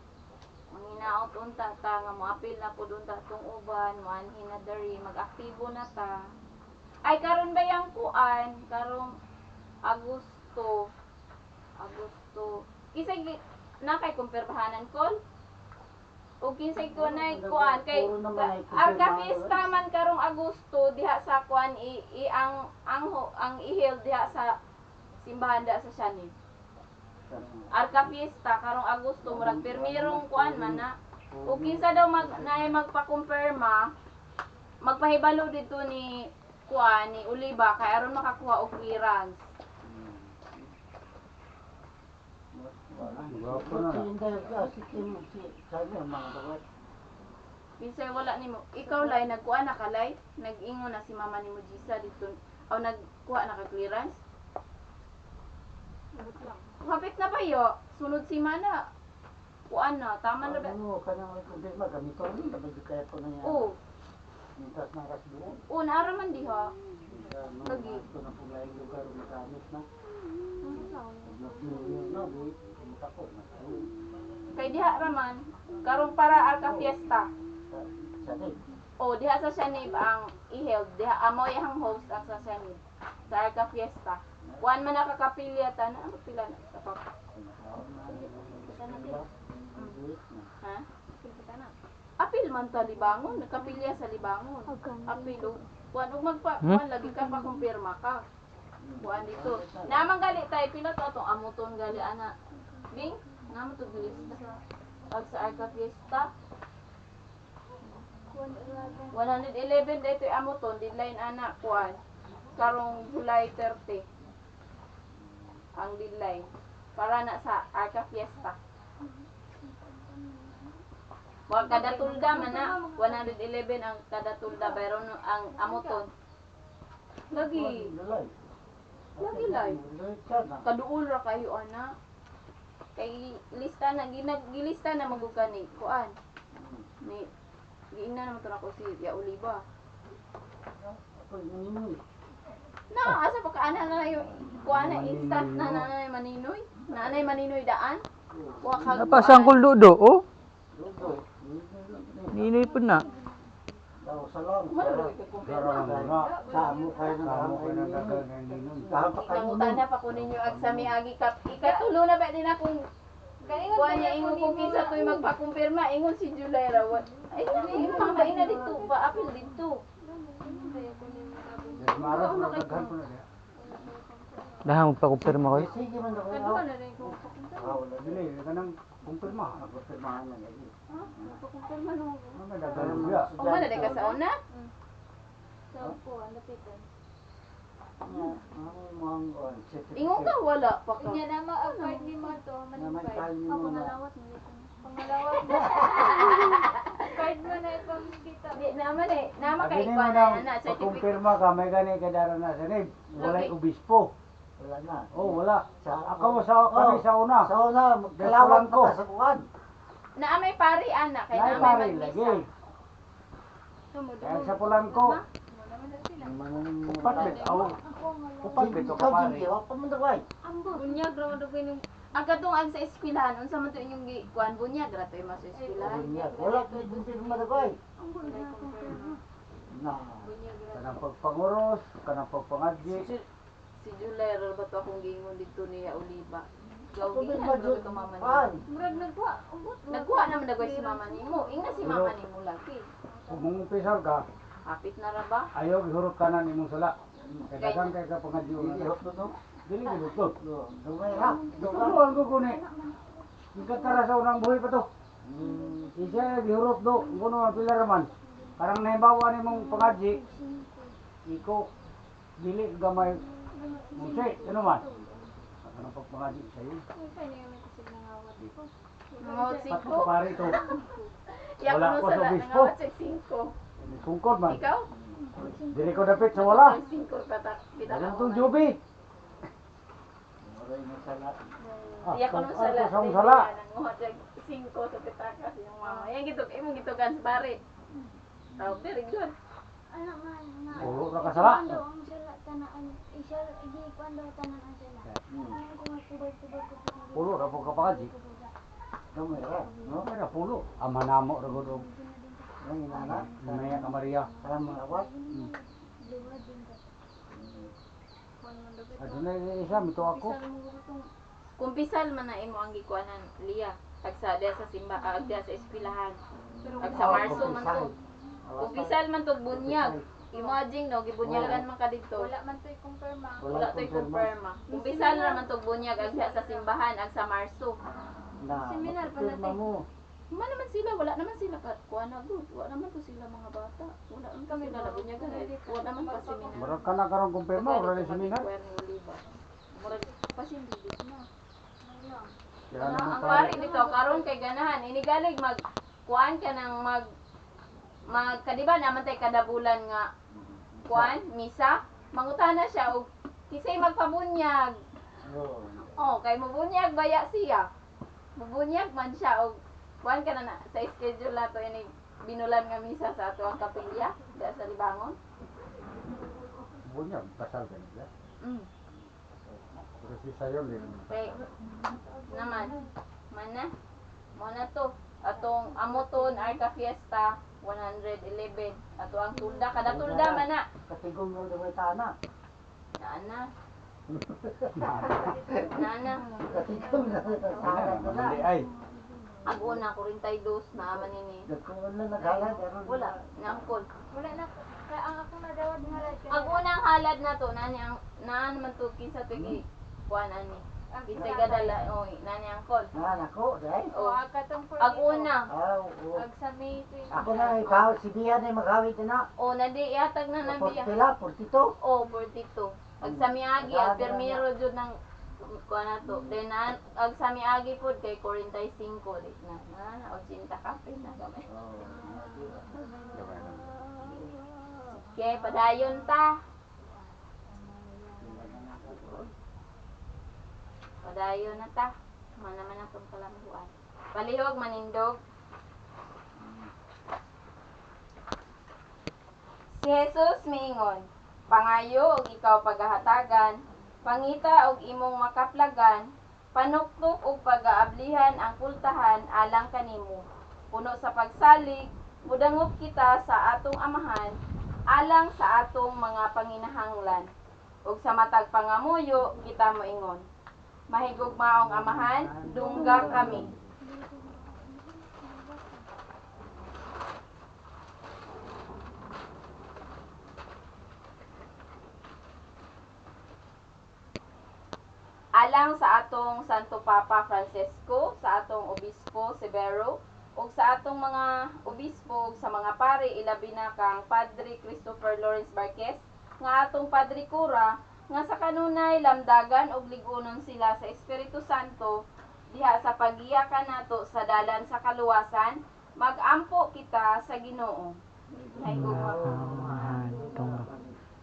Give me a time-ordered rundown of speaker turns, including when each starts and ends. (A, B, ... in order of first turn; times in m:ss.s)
0:00.7-0:06.1 A
0:07.0-0:09.1 A
0:09.9-0:10.8 A
0:11.8-0:15.2 A
0:16.4-0:24.5 A
0:16.8-0:19.6 B
0:25.2-0:26.3 A
0:27.3-0:27.7 B
0:27.7-0:30.9 A
0:29.2-0:32.8 B
0:31.4-0:33.9 A
0:34.8-0:36.1 A
0:36.7-0:39.4 A
0:39.8-0:40.7 B
0:42.5-0:46.6 B
0:43.2-0:44.1 C
0:47.8-0:54.2 A
0:56.1-0:56.8 D
0:56.8-0:58.8 A
0:59.7-1:00.7 A
1:00.4-1:03.7 B
1:03.4-1:03.8 A
1:04.6-1:05.6 B
1:05.7-1:06.7 A
1:07.1-1:09.8 B
1:07.6-1:08.0 A
1:10.6-1:12.1 D
1:11.2-1:13.9 B
1:14.5-1:17.3 A
1:16.6-1:17.0 B
1:17.7-1:18.6 B
1:19.0-1:27.0 A
1:27.3-1:30.5 B
1:28.1-1:29.2 D
1:31.2-1:31.7 D
1:32.2-1:38.2 A
1:34.7-1:35.6 D
1:37.1-1:37.6 D
1:38.8-1:40.1 B
1:39.0-1:42.3 A
1:42.9-1:44.5 A
1:44.1-1:44.5 D
1:45.1-1:46.3 A
1:48.3-1:49.2 D
1:49.1-1:52.0 A
1:52.5-1:54.0 A
1:55.8-1:58.6 A
1:59.0-2:00.6 D
2:01.5-2:06.1 A
2:01.6-2:03.3 D
2:04.5-2:04.8 D
2:05.5-2:06.0 D
2:07.3-2:07.8 A
2:07.4-2:08.3 B
2:09.2-2:10.6 B
2:09.2-2:09.8 A
2:10.6-2:11.9 A
2:13.0-2:16.1 A
2:15.1-2:15.5 D
2:16.5-2:16.9 B
2:17.9-2:19.6 A
2:20.8-2:22.0 B
2:22.9-2:28.0 A
2:24.6-2:25.9 C
2:28.3-2:29.4 B
2:28.6-2:29.6 A
2:29.0-2:30.2 E
2:29.3-2:29.6 C
2:30.7-2:32.7 B
2:32.3-2:33.0 E
2:32.8-2:33.4 D
2:34.0-2:35.1 B
2:34.7-2:36.1 A
2:35.4-2:36.4 C
2:35.8-2:39.8 B
2:36.0-2:37.2 D
2:37.1-2:39.1 C
2:39.2-2:42.8 A
2:40.2-2:40.9 C
2:41.6-2:41.8 D
2:43.4-2:45.3 D
2:43.7-2:49.8 A
2:47.3-2:49.4 D
2:50.0-2:52.9 D
2:51.8-2:53.2 C
2:53.6-2:54.8 D
2:54.6-2:55.7 E
2:55.2-2:58.3 B
2:56.3-2:57.8 D
2:58.0-2:59.6 C
2:59.5-3:01.4 B
3:00.9-3:03.1 D
3:02.3-3:03.3 C
3:02.7-3:04.0 B
3:03.4-3:04.4 A
3:03.6-3:04.7 D
3:05.7-3:06.9 D
3:08.0-3:10.4 B
3:09.9-3:12.3 A
3:11.0-3:18.8 D
3:12.7-3:14.0 B
3:15.4-3:17.2 A
3:18.5-3:21.3 A
3:19.6-3:24.1 C
3:23.1-3:23.4 B
3:23.2-3:23.5 A
3:24.6-3:29.4 B
3:25.1-3:27.5 C
3:28.2-3:29.0 C
3:30.2-3:32.4 A
3:31.3-3:32.4 C
3:33.9-3:36.4 D
3:34.2-3:35.2 C
3:36.2-3:37.7 B
3:36.9-3:37.8 C
3:37.1-3:38.8 D
3:38.4-3:39.5 C
3:38.4-3:40.2 B
3:40.4-3:41.2 D
3:40.7-3:49.2 A
3:45.5-3:46.1 D
3:45.8-3:47.8 B
3:48.0-3:49.2 D
3:49.7-3:50.3 B
3:50.2-3:51.0 D
3:50.7-3:53.1 C
3:52.9-3:53.2 A
3:53.8-3:58.4 A
3:57.0-3:58.6 B
3:58.7-4:01.9 D
3:59.9-4:02.8 A
4:01.8-4:02.1 C
4:03.0-4:03.9 D
4:03.3-4:04.2 C
4:04.6-4:05.5 A
4:05.5-4:06.9 C
4:07.2-4:07.5 B
4:07.5-4:08.9 C
4:07.6-4:08.0 A
4:08.5-4:09.3 B
4:09.6-4:10.3 C
4:10.4-4:12.0 B
4:11.0-4:14.0 D
4:11.6-4:12.6 C
4:13.5-4:14.9 C
4:15.2-4:16.0 B
4:15.4-4:18.8 D
4:15.9-4:20.2 C
4:19.4-4:20.9 D
4:21.2-4:21.7 C
4:22.4-4:23.2 C
4:23.0-4:25.4 D
4:23.9-4:24.8 C
4:25.6-4:26.8 C
4:26.9-4:31.0 D
4:29.2-4:33.5 A
4:29.7-4:30.6 C
4:31.6-4:32.7 C
4:33.8-4:34.6 C
4:34.5-4:34.9 A
4:34.9-4:35.2 B
4:35.2-4:36.8 D
4:35.7-4:36.8 C
4:36.3-4:38.6 A
4:37.8-4:38.8 C
4:40.4-4:41.4 B
4:41.6-4:42.1 D
4:42.0-4:43.5 C
4:42.1-4:47.6 A
4:45.8-4:46.1 D
4:48.6-4:49.3 A
4:49.9-4:58.5 D
4:50.7-4:51.1 B
4:50.7-4:51.8 C
4:55.3-4:55.6 B
4:57.1-4:58.1 C
4:59.1-5:00.1 B
4:59.5-5:00.0 D
5:00.0-5:01.9 C
5:01.5-5:02.5 D
5:02.6-5:03.8 B
5:03.0-5:06.8 D
5:03.0-5:04.4 C
5:04.4-5:05.1 B
5:07.3-5:07.7 B
5:08.4-5:11.1 D
5:09.0-5:10.4 C
5:11.6-5:16.2 A
5:15.1-5:15.4 D
5:16.6-5:18.0 B
5:16.6-5:17.9 D
5:16.8-5:17.9 A
5:18.5-5:20.2 B
5:18.6-5:22.3 A
5:21.2-5:21.6 B
5:22.1-5:23.5 D
5:23.4-5:24.3 B
5:23.5-5:27.8 A
5:24.7-5:26.7 D
5:28.4-5:29.8 B
5:28.6-5:29.6 D
5:30.3-5:36.7 A
5:34.5-5:36.9 D
5:36.5-5:38.4 C
5:37.5-5:39.2 A
5:39.8-5:41.2 A
5:41.8-5:42.3 D
5:42.7-5:43.6 C
5:42.8-5:47.1 A
5:43.2-5:44.3 D
5:48.1-5:50.1 A
5:50.3-5:51.2 B
5:50.9-5:54.7 A
5:55.2-5:56.0 B
5:56.0-5:57.7 A
5:58.4-6:05.2 A
6:06.8-6:08.1 C
6:09.1-6:09.8 B
6:10.0-6:11.1 C
6:10.8-6:12.9 D
6:11.1-6:11.4 A
6:12.3-6:12.8 A
6:13.3-6:13.7 A
6:14.4-6:20.6 A
6:15.4-6:16.6 D
6:19.4-6:19.7 D
6:19.8-6:22.1 B
6:23.0-6:23.4 A
6:24.1-6:25.8 B
6:24.7-6:25.6 C
6:25.2-6:29.5 D
6:25.7-6:26.2 A
6:26.4-6:28.5 B
6:27.6-6:28.7 C
6:29.4-6:31.5 A
6:30.8-6:33.6 B
6:32.2-6:33.8 A
6:34.1-6:36.6 D
6:36.3-6:42.9 A
6:40.9-6:41.8 D
6:41.2-6:41.5 B
6:42.9-6:44.0 B
6:43.9-6:45.3 D
6:44.8-6:45.5 A
6:45.5-6:46.2 B
6:46.1-6:47.8 D
6:47.1-6:49.3 B
6:49.4-6:51.0 A
6:50.4-6:51.7 B
6:51.8-7:01.4 A
6:53.0-6:54.4 B
7:01.5-7:02.8 B
7:01.8-7:04.3 D
7:03.1-7:03.8 C
7:04.0-7:04.3 B
7:04.8-7:05.9 D
7:05.1-7:06.4 A
7:07.5-7:08.7 D
7:08.2-7:09.3 B
7:11.0-7:15.2 A
7:16.4-7:16.7 B
7:19.7-7:34.4 A
7:34.9-7:37.3 A
7:37.9-7:40.2 A
7:40.9-7:43.5 A
7:41.6-7:43.5 B
7:42.6-7:45.8 D
7:42.8-7:43.4 C
7:55.4-8:12.0 A
8:12.5-8:17.9 A
8:18.3-8:21.0 B
8:18.6-8:19.5 A
8:18.7-8:20.6 E